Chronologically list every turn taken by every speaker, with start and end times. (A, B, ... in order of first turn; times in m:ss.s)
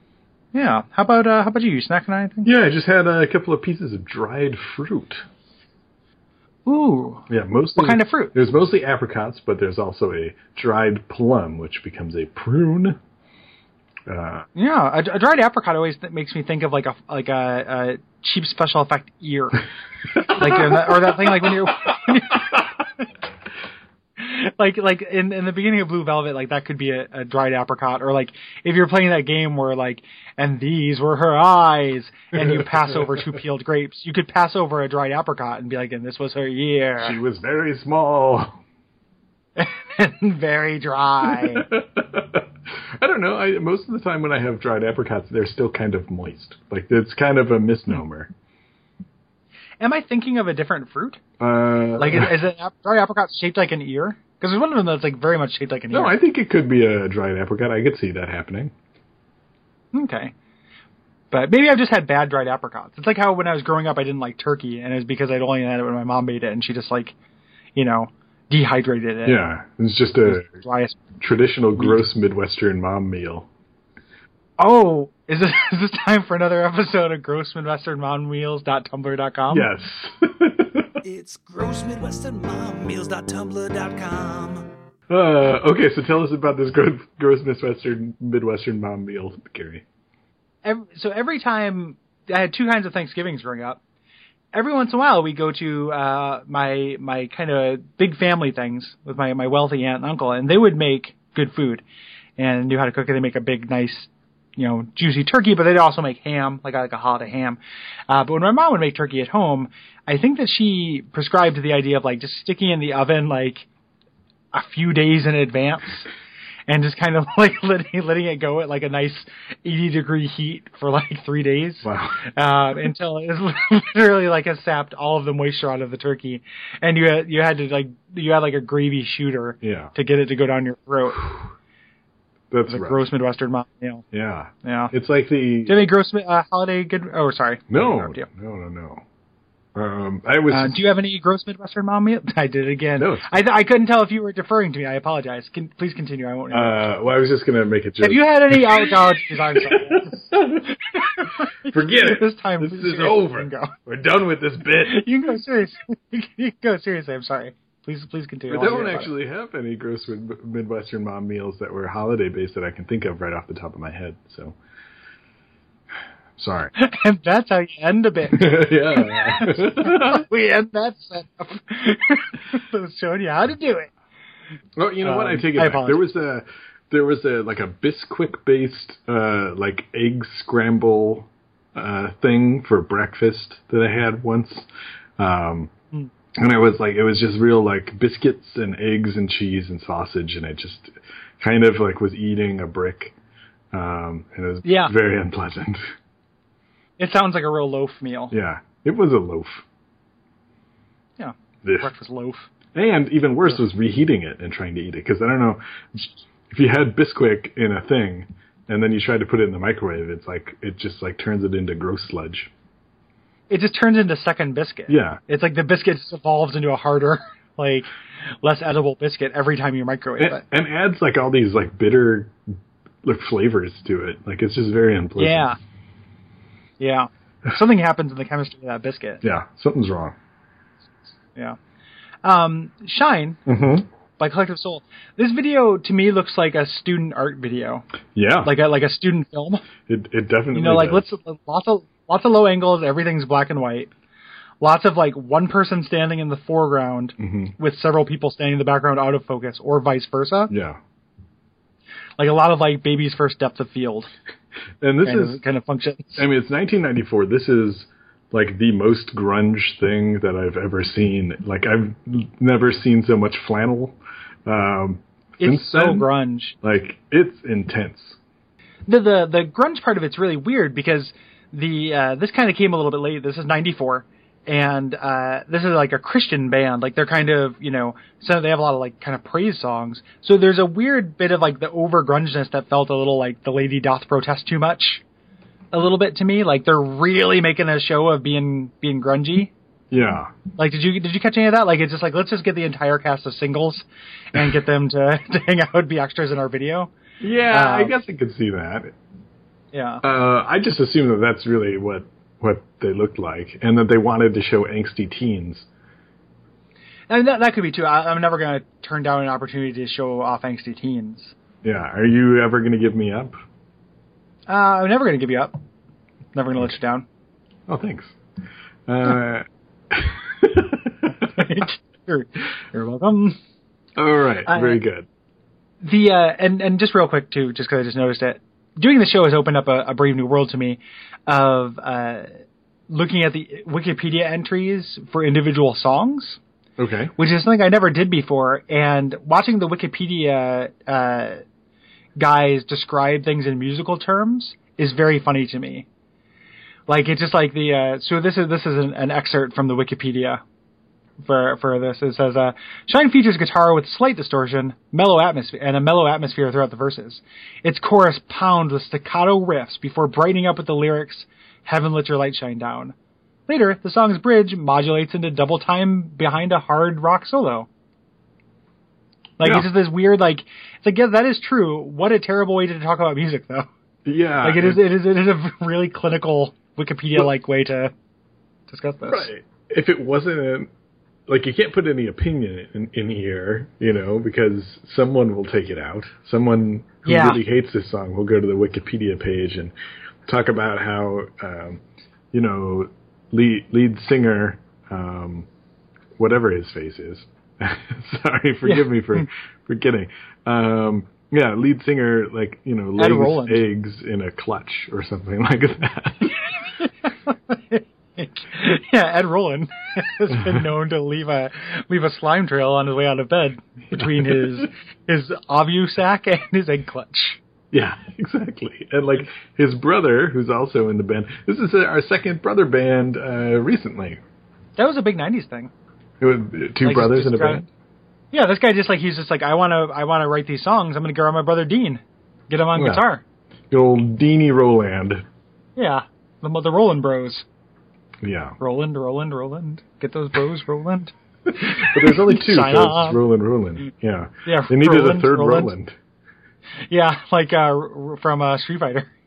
0:00.5-0:02.5 A
0:02.4-0:05.2 B
0:06.7-0:08.4 A
0:07.3-0:13.0 B
0:14.1-0:14.5 B
0:14.6-0:19.6 A
0:20.2-0:21.7 B
0:20.2-0:23.0 A
0:22.3-0:22.6 B
0:24.2-0:37.2 A
0:32.4-0:33.2 B
0:37.0-0:38.6 B
0:39.6-0:41.7 A
0:41.2-0:48.3 B
0:49.8-0:51.2 A
0:51.4-0:52.3 B
0:52.0-0:56.2 A
0:55.9-0:58.7 B
0:59.9-1:00.3 A
1:01.3-1:07.2 A
1:07.8-1:09.4 A
1:09.2-1:10.5 B
1:10.2-1:11.0 A
1:11.2-1:13.5 B
1:14.6-1:19.7 A
1:19.5-1:21.0 B
1:21.0-1:24.6 A
1:25.1-1:29.8 B
1:30.6-1:33.8 A
1:34.5-1:41.8 A
1:42.4-1:53.7 A
1:54.5-1:56.1 A
1:56.7-2:11.4 A
2:01.8-2:02.2 B
2:09.6-2:09.9 B
2:12.5-2:13.1 B
2:12.7-2:14.0 A
2:14.1-2:15.7 B
2:14.6-2:14.9 A
2:15.7-2:18.3 A
2:17.7-2:19.0 B
2:19.8-2:20.8 B
2:20.5-2:26.9 A
2:23.0-2:23.4 B
2:26.5-2:35.0 B
2:28.0-2:33.8 A
2:34.8-2:39.1 A
2:38.5-2:44.6 B
2:46.4-2:46.7 B
2:46.8-2:53.9 A
2:48.3-2:50.2 B
2:54.8-3:05.7 B
2:55.0-2:56.1 A
3:06.4-3:13.2 B
3:13.7-3:15.8 B
3:14.6-3:14.9 A
3:17.0-3:18.3 A
3:18.3-3:19.6 B
3:21.2-3:22.5 A
3:21.6-3:21.9 B
3:22.7-3:32.5 B
3:33.5-3:40.4 A
3:34.9-3:35.2 B
3:40.2-3:42.4 B
3:43.0-3:45.5 B
3:45.2-3:45.6 A
3:46.8-3:49.2 A
3:49.2-3:50.2 B
3:52.2-3:53.4 A
3:53.5-3:53.9 B
3:54.2-3:57.9 A
3:58.2-3:58.5 B
3:58.4-3:59.7 A
3:59.9-4:01.1 B
4:00.5-4:03.9 A
4:04.6-4:10.5 A
4:07.2-4:07.6 B
4:10.5-4:10.8 B
4:12.2-4:14.1 A
4:14.8-4:15.4 B
4:15.0-4:16.2 A
4:16.2-4:26.1 B
4:25.4-4:26.6 A
4:26.6-4:28.2 B
4:28.9-4:45.0 A
4:45.7-4:49.5 A
4:49.9-4:50.4 B
4:50.6-4:56.9 A
4:57.2-4:59.0 B
4:57.5-4:58.0 A
4:59.7-5:00.0 A
5:00.0-5:05.7 B
5:07.1-5:11.4 A
5:11.6-5:13.4 B
5:14.5-5:15.6 A
5:16.3-5:17.0 A
5:17.7-5:18.2 B
5:18.9-5:21.4 B
5:21.1-5:23.4 A
5:24.0-5:25.1 B
5:24.5-5:24.8 A
5:25.8-5:32.3 A
5:32.9-5:36.4 A
5:36.8-5:37.1 B
5:37.2-5:41.4 A
5:42.2-5:45.9 A
5:46.9-5:50.4 A
5:51.2-6:03.0 A
6:03.5-6:07.7 A
6:09.4-6:13.7 A
6:09.4-6:09.7 B
6:14.0-6:14.8 B
6:14.4-6:17.9 A
6:18.7-6:19.3 A
6:19.1-6:20.7 B
6:21.3-6:29.7 B
6:27.0-6:27.4 A
6:30.3-6:31.8 B
6:32.3-6:35.5 B
6:36.2-6:46.4 B
6:38.6-6:39.3 A
6:43.0-6:43.6 A
6:46.8-6:57.4 A
6:53.9-6:54.6 B
6:57.7-7:04.2 B
7:04.8-7:05.7 A
7:06.2-7:07.7 B
7:06.8-7:07.6 A
7:08.3-7:13.2 A
7:12.8-7:13.0 B
7:13.7-7:15.2 B
7:15.8-7:17.4 A
7:18.2-7:18.6 B
7:18.6-7:23.2 A
7:21.6-7:26.0 B
7:24.4-7:25.7 A
7:26.9-7:29.1 A